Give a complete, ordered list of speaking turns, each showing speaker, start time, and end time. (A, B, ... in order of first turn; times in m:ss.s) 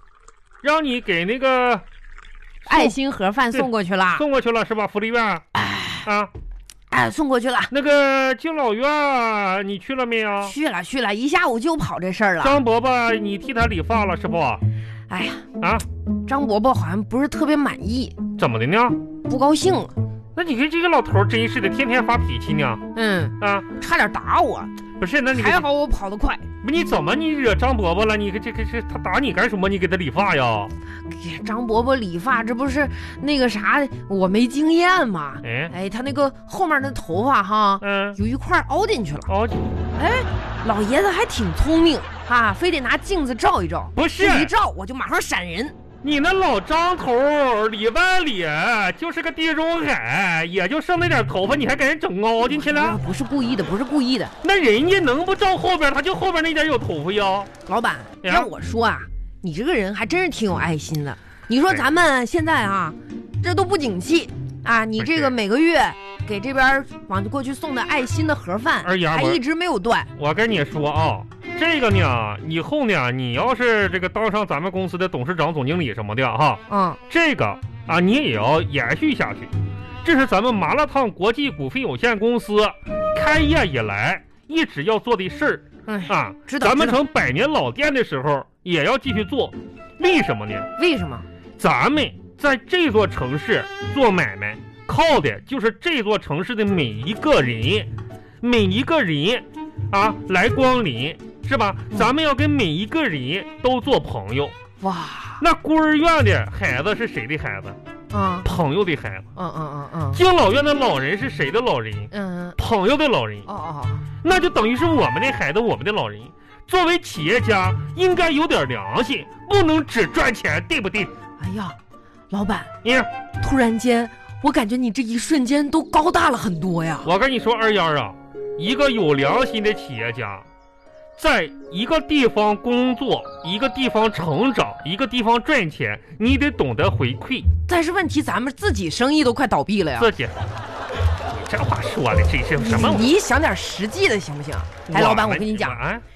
0:00.6-0:01.8 A
0:02.6-0:03.0 A
0:02.7-0:04.2 B
0:03.5-0:05.4 A
0:05.6-0:06.1 B
0:06.0-0:06.3 A
0:06.9-0:07.7 B
0:07.7-0:10.6 A
0:10.4-0:12.6 B
0:12.4-0:14.6 A
0:15.1-0:15.5 B
0:16.3-0:18.2 B
0:18.4-0:19.0 A
0:19.3-0:19.9 B
0:20.4-0:22.8 A
0:22.9-0:24.7 B
0:23.4-0:23.7 A
0:25.0-0:25.6 A
0:25.3-0:26.5 B
0:26.6-0:30.7 A
0:31.1-0:39.3 B
0:35.4-0:35.7 A
0:37.8-0:38.2 A
0:39.3-0:39.6 A
0:40.0-0:45.8 B
0:44.0-0:44.5 A
0:46.0-0:53.0 A
0:52.5-0:54.3 B
0:54.4-0:57.5 A
0:57.7-1:10.1 B
0:58.2-0:58.5 A
1:05.0-1:05.4 A
1:08.8-1:09.4 A
1:10.2-1:19.5 A
1:16.7-1:17.0 B
1:20.0-1:30.7 A
1:25.9-1:27.0 B
1:30.8-1:31.3 B
1:31.6-1:37.9 A
1:38.4-1:44.5 A
1:44.8-1:45.4 B
1:45.4-1:47.8 A
1:48.1-1:48.5 B
1:48.4-1:49.3 A
1:49.4-1:50.2 B
1:50.1-1:53.5 A
1:52.1-1:52.6 B
1:53.5-1:54.1 B
1:54.2-2:01.1 A
2:01.4-2:01.8 B
2:02.3-2:02.7 B
2:02.8-2:03.1 A
2:03.4-2:07.1 B
2:07.0-2:10.5 A
2:11.2-2:17.5 A
2:17.7-2:20.1 B
2:20.0-2:20.4 A
2:21.3-2:23.1 A
2:22.6-2:25.8 B
2:24.9-2:26.0 A